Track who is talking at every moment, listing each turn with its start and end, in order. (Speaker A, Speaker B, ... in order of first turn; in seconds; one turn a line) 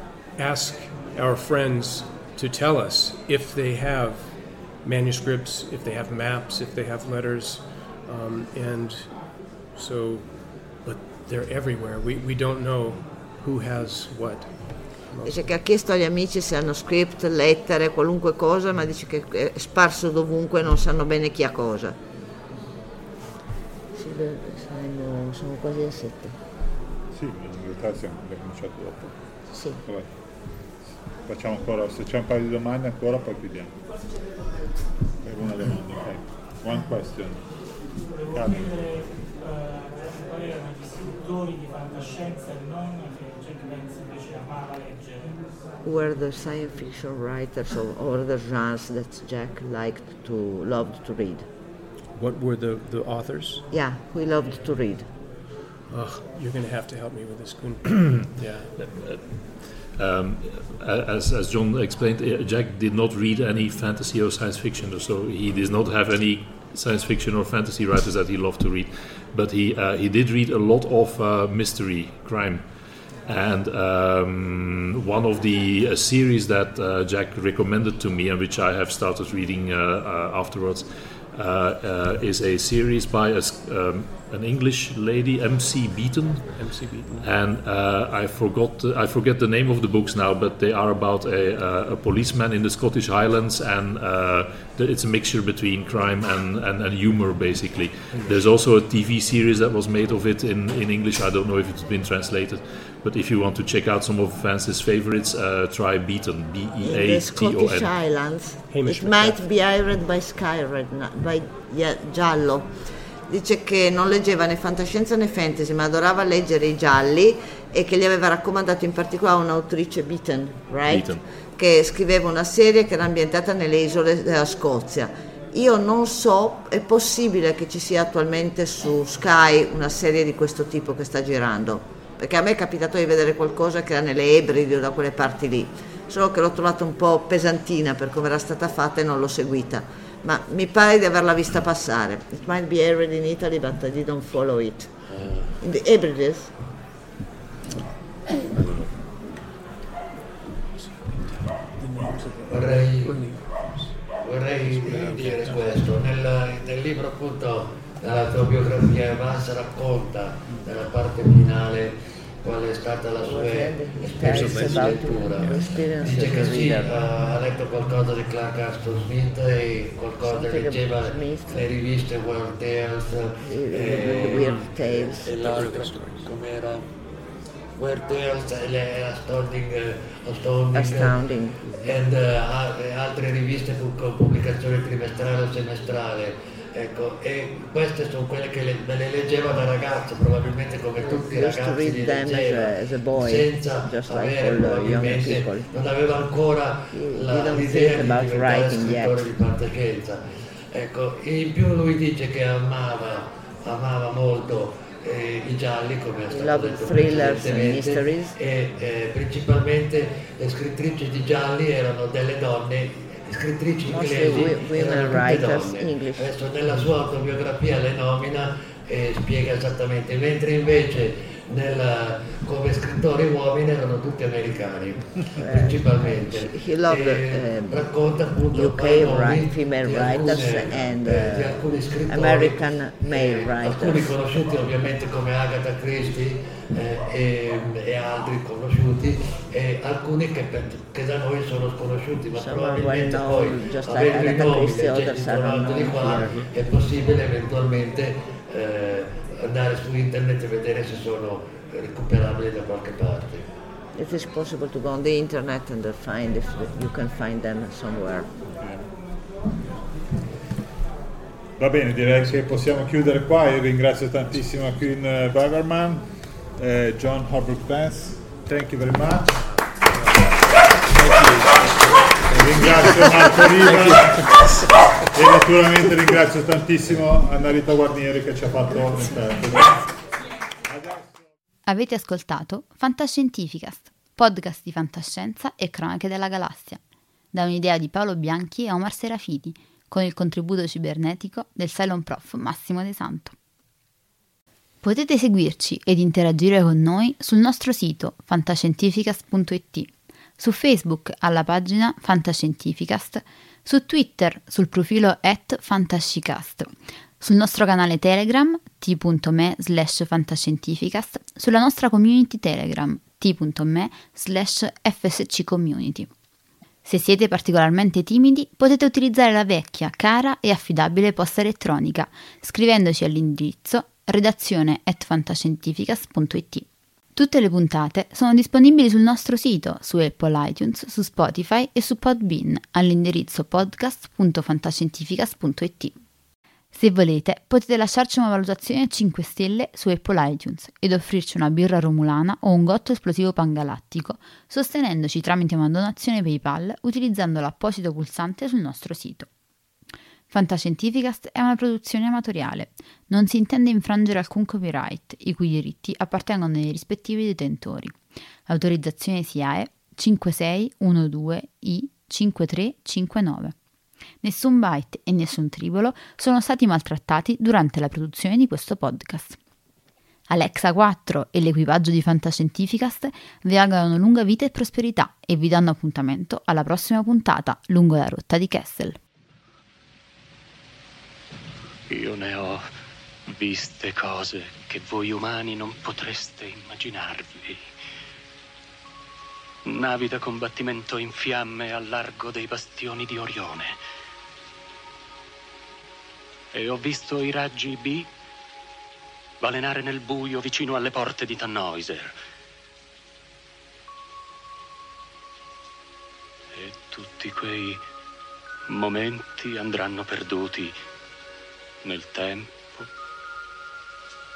Speaker A: 0.3-15.6
Speaker B: 15.2-21.9
Speaker B: 23.9-26.4
Speaker C: 27.1-29.2
Speaker B: 29.5-29.8
Speaker C: 29.8-30.1
Speaker C: 31.2-33.8
Speaker C: 35.2-37.6
Speaker D: 38.0-45.5
Speaker C: 38.3-38.7
Speaker B: 45.8-51.5
Speaker A: 52.1-53.6
Speaker B: 53.7-55.1
Speaker A: 55.9-58.7
Speaker E: 57.9-72.7
Speaker E: 73.2-107.9
Speaker A: 86.5-87.3
Speaker A: 98.1-98.4
Speaker B: 106.8-112.7
Speaker A: 108.7-109.4
Speaker B: 113.3-145.0
Speaker E: 120.9-121.2
Speaker F: 145.1-145.6
Speaker B: 145.6-146.5
Speaker A: 148.4-148.9
Speaker A: 150.7-155.9
Speaker F: 152.4-153.2
Speaker F: 154.2-161.9
Speaker F: 162.4-176.8
Speaker B: 163.2-167.0
Speaker A: 164.2-166.3
Speaker B: 170.2-171.7
Speaker B: 173.4-175.3
Speaker A: 174.4-174.7
Speaker A: 175.2-176.3
Speaker F: 177.8-181.2
Speaker B: 180.7-181.9
Speaker A: 181.6-181.9
Speaker F: 181.8-200.2
Speaker B: 191.0-195.7
Speaker B: 196.9-199.2
Speaker F: 200.7-253.4
Speaker B: 206.3-208.3
Speaker B: 213.8-216.8
Speaker B: 225.4-227.8
Speaker B: 228.5-234.2
Speaker B: 242.3-246.4
Speaker B: 253.9-258.3
Speaker C: 258.6-258.9
Speaker C: 261.6-269.4
Speaker A: 270.9-272.1
Speaker C: 272.3-274.3
Speaker A: 273.7-274.0
Speaker C: 275.1-279.9
Speaker C: 280.7-281.1
Speaker G: 281.6-286.8
Speaker G: 287.3-293.3
Speaker G: 294.8-316.1
Speaker G: 316.8-335.9
Speaker G: 336.7-349.3
Speaker G: 350.3-363.5
Speaker G: 364.2-369.4
Speaker G: 370.3-379.0
Speaker H: 381.9-382.6
Speaker H: 383.3-387.7
Speaker H: 389.6-393.7
Speaker H: 396.5-398.1
Speaker H: 399.4-402.1
Speaker H: 406.5-407.8
Speaker H: 408.7-410.8
Speaker H: 411.8-412.9